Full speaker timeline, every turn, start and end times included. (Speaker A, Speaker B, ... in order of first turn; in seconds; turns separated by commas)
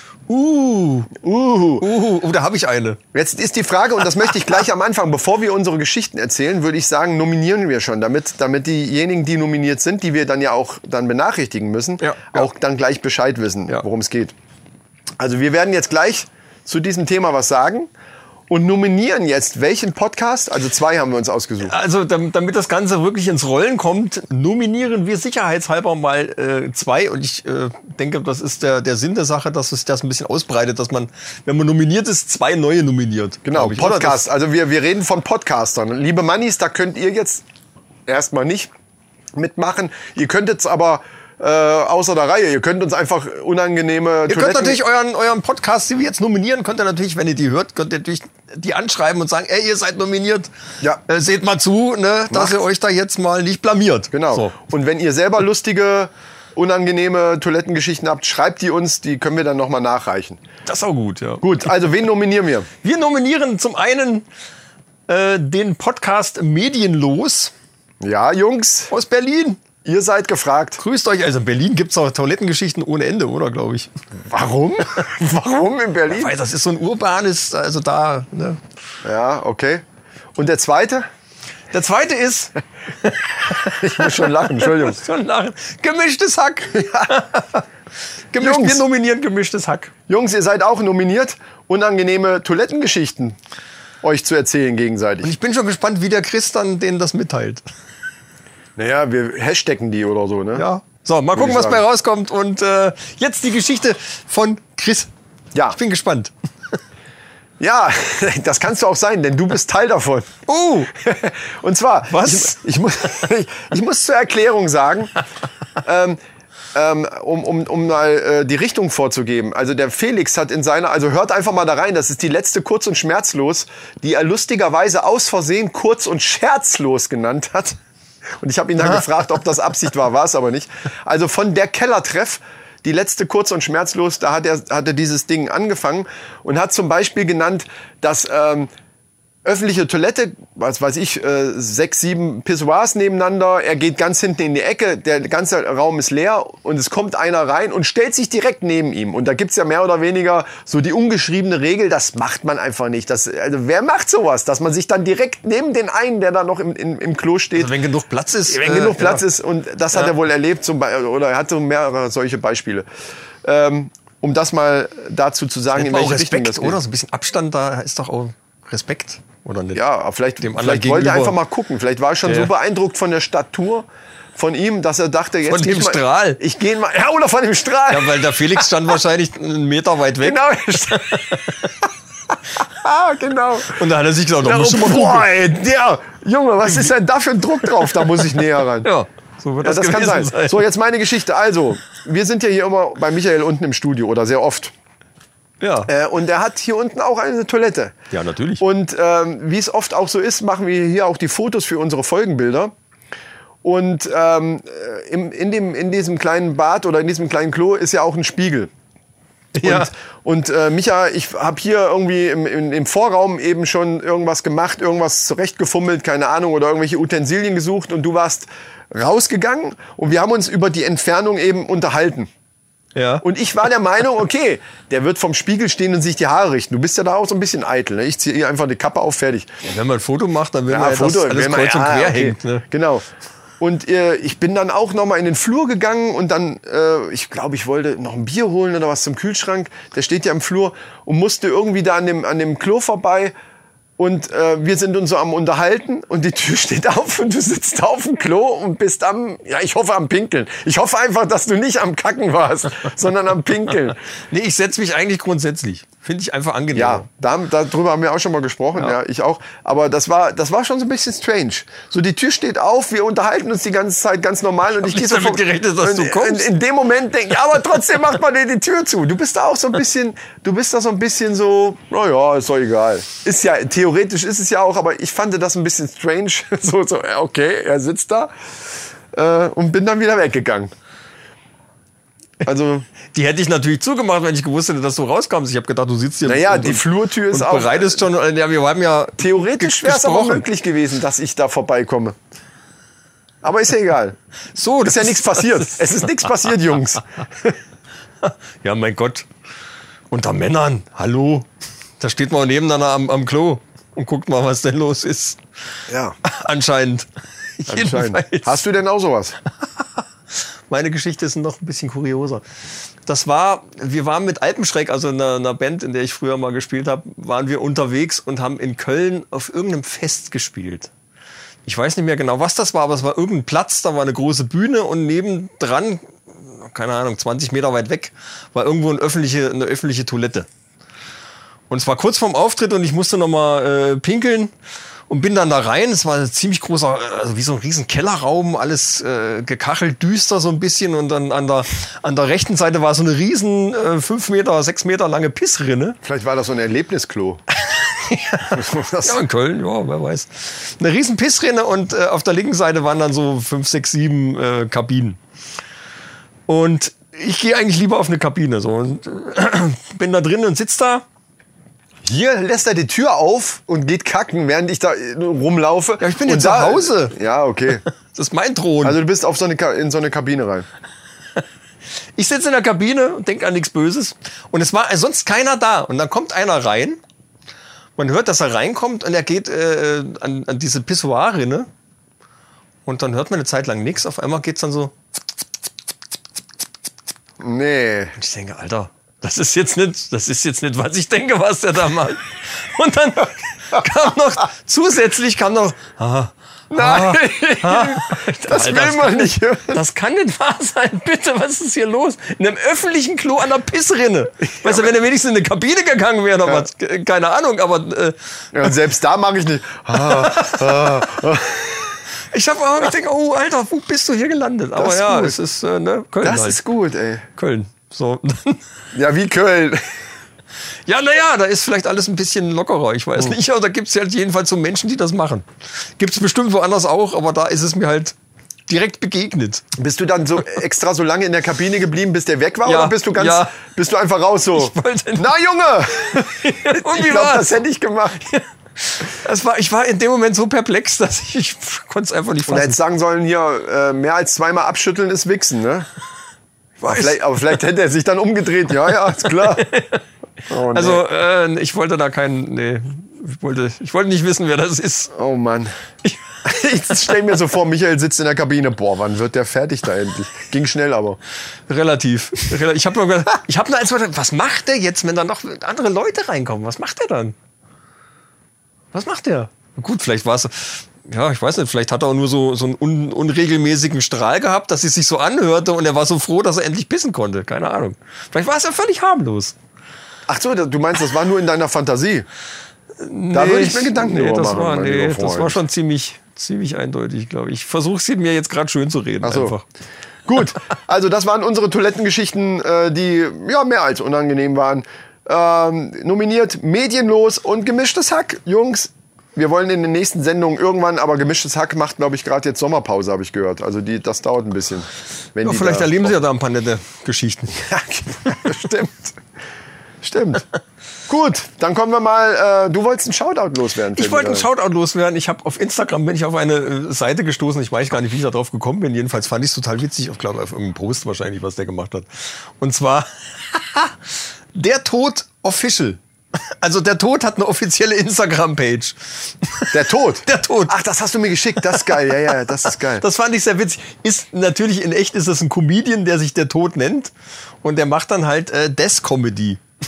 Speaker A: 0.3-1.1, Speaker B: 1.1-1.9, Speaker A: 1.8-3.0, Speaker B: 3.1-14.3, Speaker A: 12.0-12.5, Speaker B: 15.2-17.9, Speaker B: 18.5-21.8, Speaker A: 21.6-34.2, Speaker B: 33.4-37.4, Speaker B: 38.1-38.7, Speaker B: 39.3-44.8, Speaker A: 44.3-50.5, Speaker A: 51.1-54.5, Speaker B: 52.3-52.6, Speaker B: 54.1-60.4, Speaker A: 60.6-61.5, Speaker B: 61.4-62.7, Speaker A: 62.8-64.2, Speaker A: 65.1-67.5, Speaker B: 68.0-68.9, Speaker A: 68.9-69.6, Speaker B: 69.8-70.8, Speaker A: 70.8-73.9, Speaker B: 74.2-76.3, Speaker A: 76.1-78.6, Speaker B: 79.0-79.8, Speaker B: 80.3-81.1, Speaker A: 81.7-87.6, Speaker B: 83.6-85.0, Speaker B: 86.8-87.1, Speaker A: 88.3-89.9, Speaker B: 88.4-88.8, Speaker B: 90.1-93.4, Speaker B: 94.0-95.3, Speaker A: 95.2-97.6, Speaker B: 98.8-100.7, Speaker A: 100.5-105.1, Speaker B: 101.3-101.8, Speaker A: 105.7-106.3, Speaker B: 107.6-110.3, Speaker A: 110.5-110.9, Speaker B: 110.9-115.1, Speaker A: 112.1-112.6, Speaker B: 115.8-116.2, Speaker B: 116.7-127.8, Speaker B: 128.4-138.7, Speaker B: 139.4-157.7, Speaker A: 157.6-159.2, Speaker B: 158.5-162.8, Speaker B: 163.4-166.8, Speaker A: 165.7-169.8, Speaker B: 169.8-178.6, Speaker A: 170.4-171.4, Speaker A: 172.2-172.5, Speaker A: 175.4-176.4, Speaker A: 177.9-181.7, Speaker B: 180.2-181.3, Speaker B: 182.6-183.8, Speaker A: 183.7-185.3, Speaker B: 184.4-188.9, Speaker A: 188.8-190.7, Speaker B: 189.6-194.7, Speaker A: 195.6-195.9, Speaker B: 195.9-197.9, Speaker A: 198.1-198.6, Speaker B: 198.6-202.7, Speaker B: 203.6-208.7, Speaker A: 209.6-209.9, Speaker B: 209.6-222.3, Speaker A: 222.9-223.2, Speaker B: 223.2-229.5, Speaker A: 229.6-232.7, Speaker B: 230.7-233.1, Speaker B: 233.6-243.3, Speaker B: 244.0-254.0, Speaker A: 254.3-257.1, Speaker B: 256.7-278.3, Speaker A: 264.8-266.5, Speaker B: 279.1-280.7, Speaker B: 282.4-282.9, Speaker A: 283.1-290.5, Speaker B: 286.2-288.0, Speaker B: 289.2-292.1, Speaker B: 293.4-294.2, Speaker A: 294.5-295.8, Speaker B: 294.8-297.6, Speaker A: 298.2-299.3, Speaker A: 300.1-301.5, Speaker A: 302.0-305.4, Speaker B: 305.9-306.2, Speaker A: 306.2-307.1, Speaker A: 307.6-308.6, Speaker B: 307.7-309.4, Speaker A: 310.7-312.4, Speaker A: 313.1-320.9, Speaker A: 321.6-330.5, Speaker A: 331.7-334.5, Speaker A: 335.1-346.0, Speaker B: 346.0-347.4, Speaker A: 347.6-355.2, Speaker B: 348.5-349.2, Speaker A: 356.5-361.0, Speaker B: 362.0-367.8, Speaker A: 366.0-367.1, Speaker A: 367.8-369.0, Speaker B: 368.8-370.7, Speaker A: 372.1-377.0, Speaker A: 378.0-381.7, Speaker A: 382.9-384.9, Speaker B: 387.4-388.1, Speaker A: 388.1-408.1, Speaker B: 396.7-399.8, Speaker B: 404.6-404.9, Speaker B: 408.5-412.0, Speaker A: 410.0-411.0, Speaker A: 412.3-416.6, Speaker B: 414.8-415.4, Speaker B: 416.2-417.3, Speaker A: 417.4-418.6, Speaker B: 418.9-419.9, Speaker A: 420.9-425.5, Speaker A: 426.0-428.1, Speaker A: 428.7-429.7, Speaker B: 429.8-438.4, Speaker A: 432.6-433.6, Speaker A: 434.5-435.3, Speaker A: 436.1-437.5, Speaker A: 438.8-442.8, Speaker B: 442.5-445.9, Speaker A: 446.8-447.2, Speaker B: 446.8-449.6, Speaker A: 449.4-450.0, Speaker B: 450.5-451.0, Speaker A: 450.7-455.1, Speaker B: 455.1-455.7, Speaker B: 456.4-461.2, Speaker A: 461.7-467.4, Speaker A: 468.9-479.6, Speaker B: 480.3-482.3, Speaker A: 483.0-489.6, Speaker B: 483.3-485.6, Speaker B: 489.2-489.5, Speaker B: 490.2-506.2, Speaker A: 505.4-507.6, Speaker B: 507.5-509.1, Speaker B: 510.0-510.4, Speaker B: 511.1-514.5, Speaker A: 513.9-522.1, Speaker A: 522.6-524.0, Speaker A: 524.5-526.0, Speaker A: 526.6-530.8, Speaker B: 529.7-533.0, Speaker A: 533.0-537.1, Speaker A: 537.6-539.6